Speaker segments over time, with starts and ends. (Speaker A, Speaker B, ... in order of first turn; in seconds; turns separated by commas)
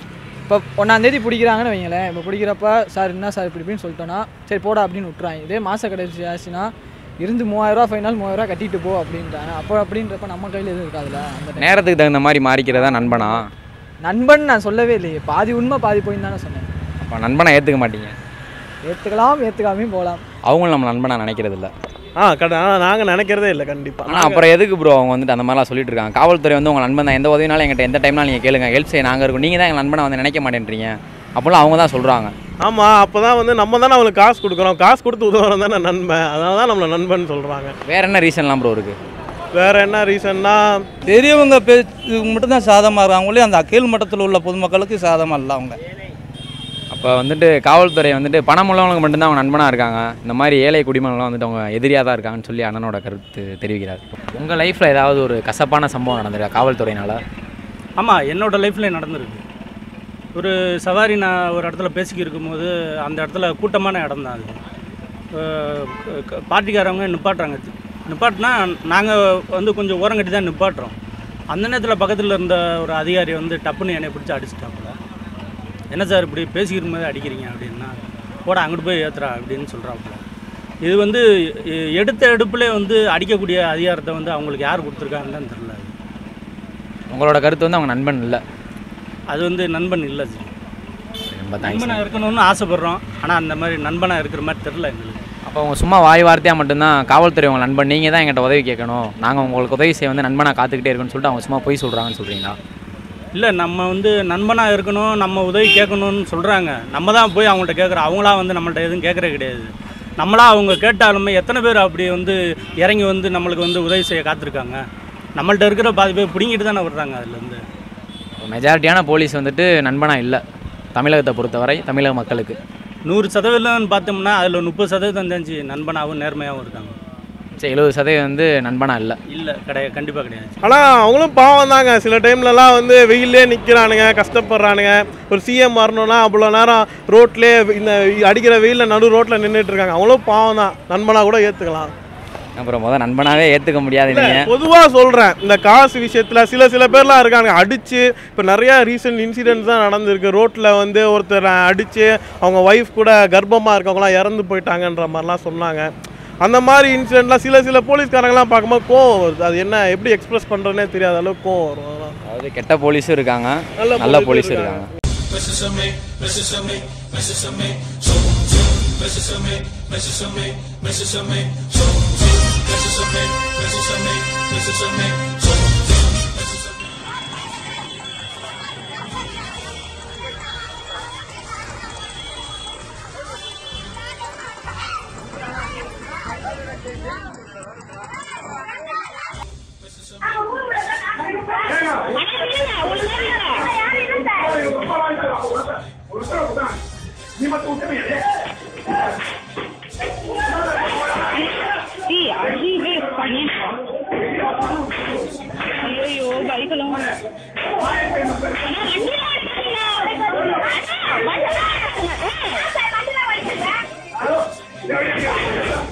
Speaker A: 0.5-11.8, Speaker B: 11.6-13.5, Speaker A: 14.0-16.7, Speaker B: 17.0-18.1, Speaker A: 18.9-20.2, Speaker B: 20.5-21.7, Speaker C: 22.2-24.5, Speaker B: 24.1-32.3, Speaker C: 32.6-37.8, Speaker B: 37.9-39.0, Speaker C: 39.6-40.9, Speaker D: 41.1-45.8, Speaker B: 46.9-57.2, Speaker E: 58.0-59.4, Speaker E: 60.4-64.6, Speaker E: 65.4-71.0, Speaker E: 71.5-75.0, Speaker E: 75.9-80.2, Speaker E: 80.8-81.2, Speaker E: 81.8-85.9, Speaker B: 87.1-88.4, Speaker E: 89.3-90.5, Speaker B: 91.3-92.0, Speaker E: 91.6-95.2, Speaker B: 95.5-102.6, Speaker E: 103.4-114.8, Speaker E: 115.4-117.6, Speaker B: 118.4-120.4, Speaker B: 121.0-122.6, Speaker E: 123.1-127.0, Speaker B: 127.6-129.2, Speaker E: 129.3-130.6, Speaker C: 130.6-141.9, Speaker B: 142.6-144.4, Speaker C: 144.1-155.9, Speaker C: 156.4-162.2, Speaker B: 162.3-164.8, Speaker C: 163.8-164.9, Speaker F: 192.1-194.8, Speaker F: 202.1-203.5, Speaker F: 205.9-207.0, Speaker F: 208.7-210.5, Speaker F: 211.6-213.6